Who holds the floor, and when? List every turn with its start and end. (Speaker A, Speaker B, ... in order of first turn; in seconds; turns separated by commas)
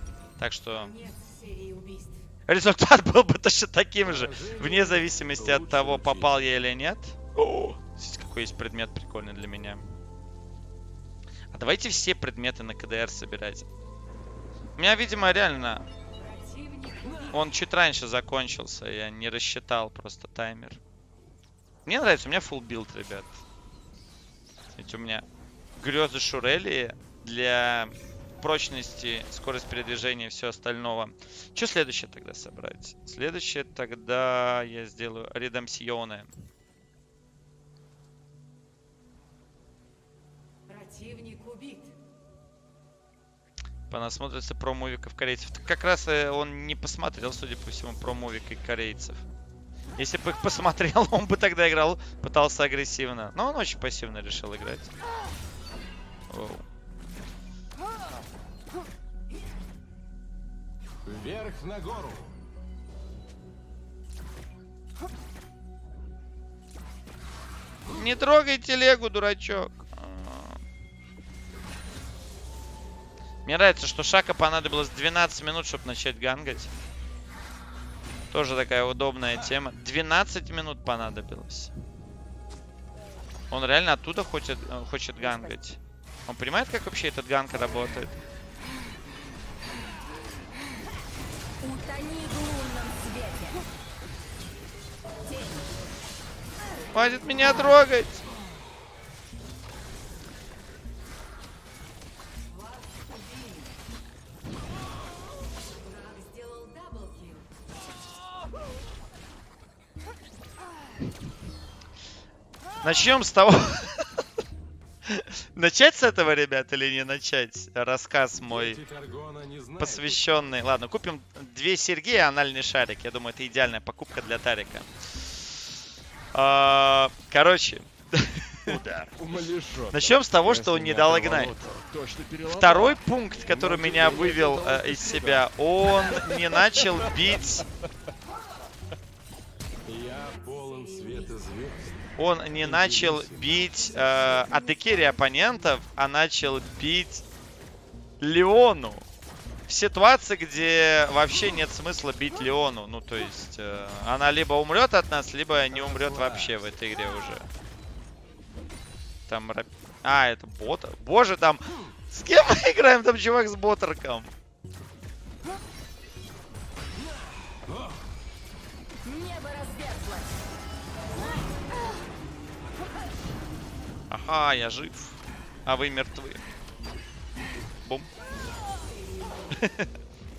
Speaker A: 0.4-0.9, Speaker B: 0.7-2.2, Speaker A: 2.5-9.8, Speaker C: 4.0-6.3, Speaker A: 11.5-13.7, Speaker A: 14.8-15.8, Speaker B: 16.1-17.5, Speaker A: 17.3-20.8, Speaker A: 21.9-23.4, Speaker A: 24.8-25.2, Speaker A: 25.8-36.3, Speaker B: 40.6-42.0, Speaker A: 43.9-49.2, Speaker A: 50.0-54.9, Speaker A: 56.3-56.6, Speaker C: 61.0-62.4, Speaker A: 67.9-70.6, Speaker A: 73.5-76.7, Speaker A: 78.3-81.7, Speaker A: 83.5-88.2, Speaker D: 91.6-93.6, Speaker A: 96.9-98.2, Speaker B: 102.5-103.8, Speaker B: 105.7-107.5, Speaker A: 112.8-114.2, Speaker A: 115.1-118.8, Speaker C: 118.3-120.3, Speaker A: 119.8-124.9, Speaker A: 126.3-128.8, Speaker E: 128.7-137.4, Speaker A: 129.9-131.5, Speaker A: 132.5-137.6, Speaker C: 139.8-142.1, Speaker A: 142.2-147.2, Speaker C: 142.6-143.7, Speaker B: 144.0-144.4, Speaker A: 148.2-149.0, Speaker A: 149.7-157.5, Speaker C: 155.7-156.6, Speaker A: 159.3-164.3, Speaker D: 169.0-170.4, Speaker A: 174.1-176.4, Speaker B: 178.5-179.5, Speaker A: 179.5-179.9